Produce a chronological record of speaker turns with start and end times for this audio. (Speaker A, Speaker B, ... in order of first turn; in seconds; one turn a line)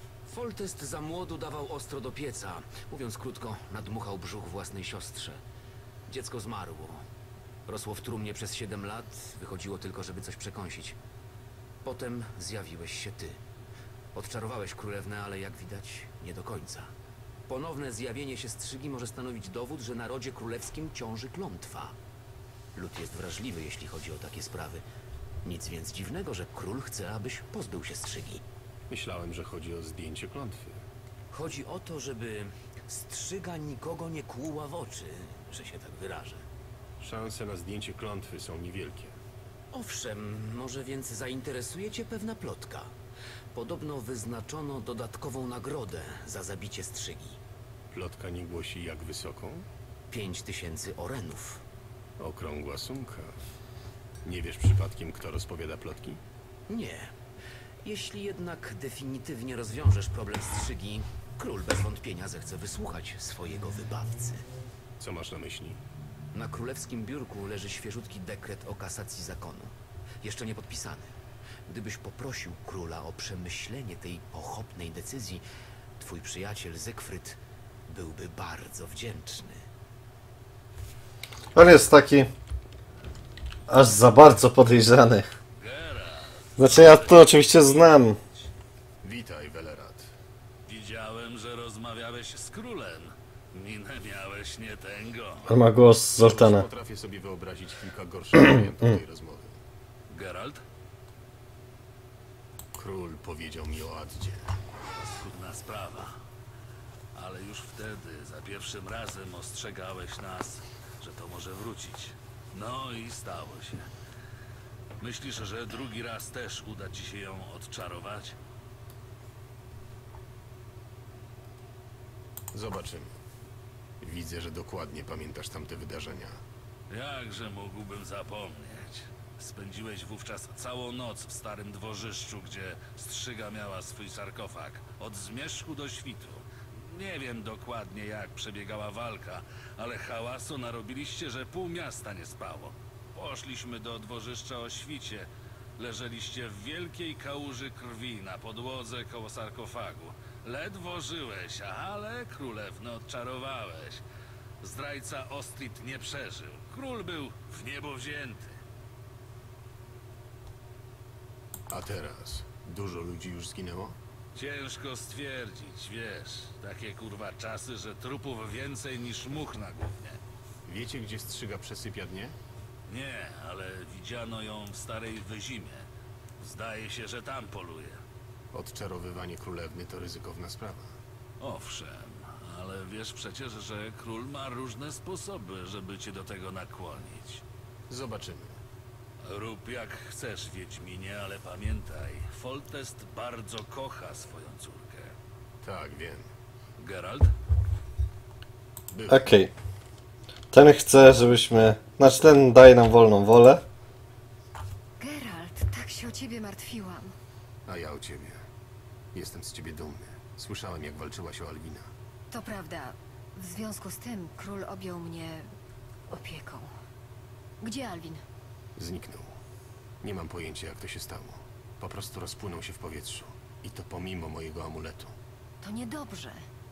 Speaker A: 0.3-5.4
Speaker A: 6.1-7.0
Speaker A: 7.7-10.9
Speaker A: 11.8-13.4
Speaker A: 14.1-16.9
Speaker A: 17.5-21.9
Speaker A: 22.7-24.8
Speaker A: 25.4-28.4
Speaker B: 28.9-30.8
Speaker A: 31.3-36.4
Speaker B: 37.0-39.1
Speaker A: 39.7-42.9
Speaker A: 43.5-47.4
Speaker B: 47.9-49.6
Speaker A: 50.1-51.6
Speaker B: 52.2-53.4
Speaker B: 54.2-56.2
Speaker A: 56.7-57.1
Speaker A: 57.8-64.5
Speaker B: 65.0-65.8
Speaker A: 66.3-71.1
Speaker A: 71.7-75.4
Speaker A: 76.0-79.7
Speaker C: 81.5-82.3
Speaker C: 83.7-85.2
Speaker D: 85.5-87.5
Speaker C: 86.6-88.2
Speaker B: 89.0-90.1
Speaker D: 90.7-95.5
Speaker C: 95.5-96.7
Speaker B: 96.2-99.6
Speaker D: 100.1-100.6
Speaker B: 102.7-104.5
Speaker D: 104.9-106.2
Speaker D: 107.1-113.9
Speaker D: 115.0-118.4
Speaker B: 122.5-123.2
Speaker B: 124.0-126.4
Speaker D: 126.9-154.0
Speaker D: 154.6-158.6
Speaker B: 161.7-163.9
Speaker D: 164.3-170.2
Speaker B: 170.7-172.3
Speaker D: 172.9-175.9
Speaker D: 176.4-178.0
Speaker B: 178.5-180.9
Speaker D: 181.4-187.4
Speaker B: 187.9-188.6
Speaker D: 189.2-195.1
Speaker B: 195.6-196.3
Speaker D: 196.8-197.3
Speaker B: 198.9-199.3
Speaker C: 199.1-199.5
Speaker C: 200.5-203.6
Speaker E: 205.0-207.1
Speaker B: 207.7-208.4
Speaker B: 209.1-211.9
Speaker E: 212.3-215.5
Speaker E: 216.1-216.7
Speaker E: 217.6-218.2
Speaker B: 218.8-219.4
Speaker B: 220.0-225.1
Speaker E: 225.6-226.4